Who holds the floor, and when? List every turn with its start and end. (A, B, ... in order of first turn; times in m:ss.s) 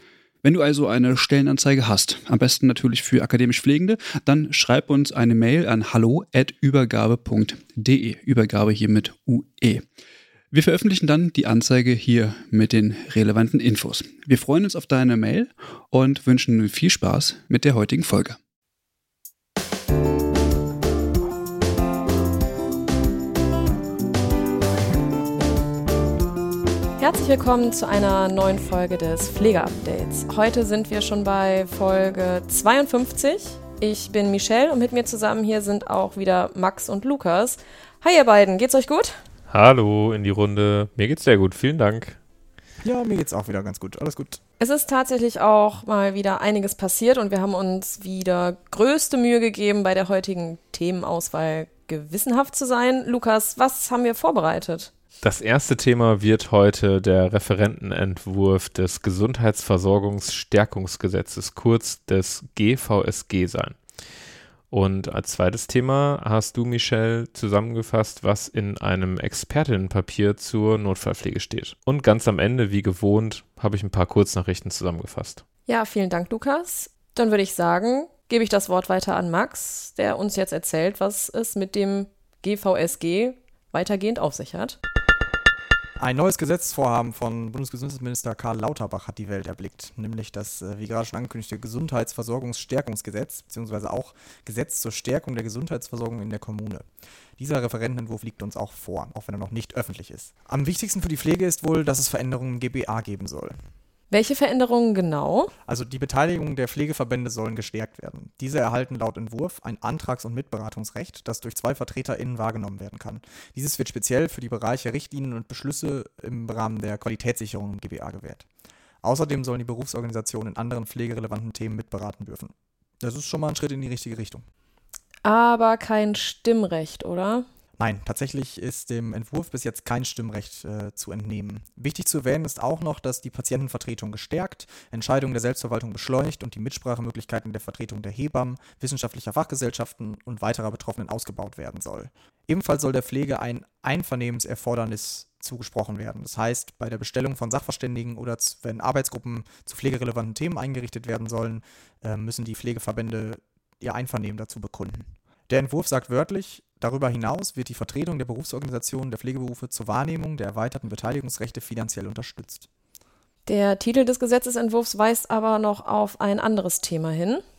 0:00.4-0:09.8 A
0:10.5-0:18.4 A
0:27.0-0:39.2 B
0:39.5-0:42.2 C
0:42.8-0:44.4 D
0:44.6-0:54.9 B
0:55.2-1:03.8 C
1:04.7-1:15.4 C
1:15.7-1:24.8 B
1:26.0-1:36.9 D
1:37.4-1:43.6 D
1:44.1-1:45.5 B
1:45.7-1:58.5 D
1:59.0-2:04.4 D
2:05.2-2:07.4 B
2:07.8-2:42.7 D
2:43.5-2:47.4 B